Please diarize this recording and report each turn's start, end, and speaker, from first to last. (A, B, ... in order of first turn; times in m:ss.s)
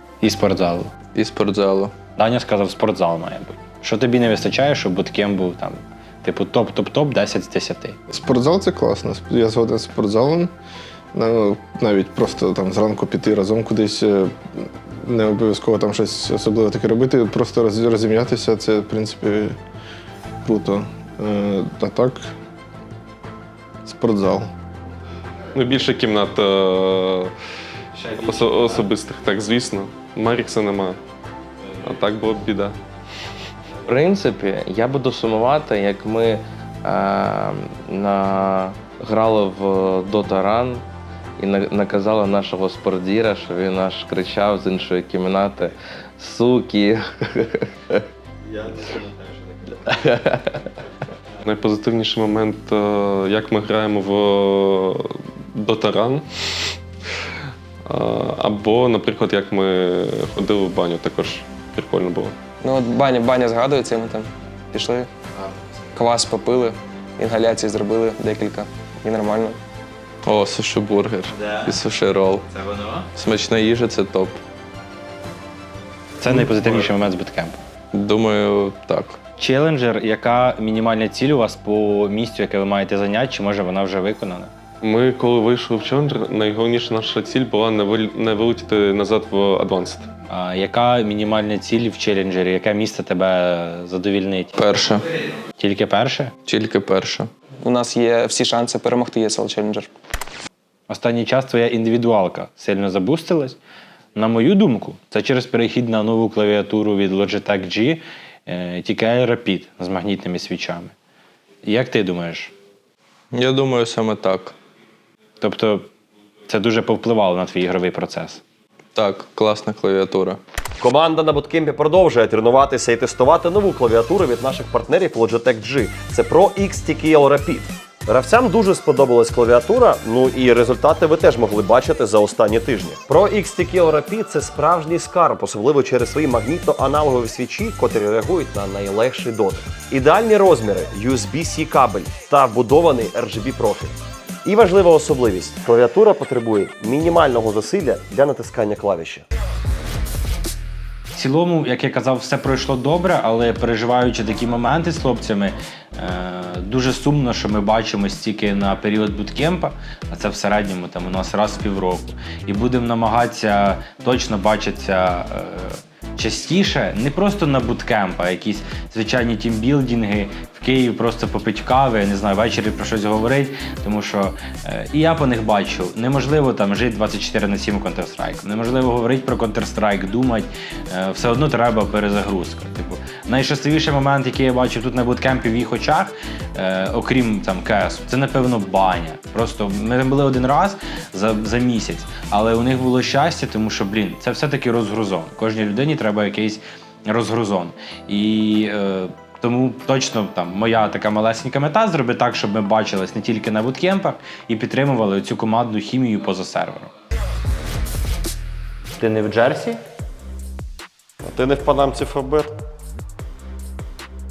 0:00.2-0:01.0 A
0:01.1-0:02.0 B
0:02.2-0:08.0 A
0:08.1-0:10.5 C
0:11.1-0:19.6 C
0:20.4-0:22.3 C
0:23.8-0:24.5 C
0:25.5-0:27.3 D
0:28.1-0:31.0 D
0:28.3-0:28.6 A
0:31.8-0:32.8 D
0:33.9-0:40.8 E
0:41.4-0:49.1 E
0:49.8-0:50.7 E
0:51.4-0:56.7 D
0:57.8-1:02.4 D
1:02.6-1:05.1 F
1:06.0-1:09.6 F
1:10.2-1:12.5 B
1:11.4-1:11.8 A
1:12.5-1:13.1 A
1:13.1-1:14.4 B
1:16.2-1:17.6 A
1:17.9-1:19.2 B
1:19.4-1:24.5 A
1:24.8-1:30.1 D
1:30.3-1:34.6 A
1:34.6-1:35.1 B
1:35.6-1:36.4 A
1:36.4-1:37.3 B
1:37.6-1:39.9 F
1:40.9-1:43.6 A
1:44.2-1:50.9 A
1:51.6-1:52.5 A
1:53.3-1:54.6 B
1:55.4-1:55.9 A
1:56.5-1:58.4 A
1:59.0-2:00.4 B
2:00.8-2:29.2 G
2:31.2-3:26.9 A
3:29.0-3:29.8 A
3:31.2-3:32.6 G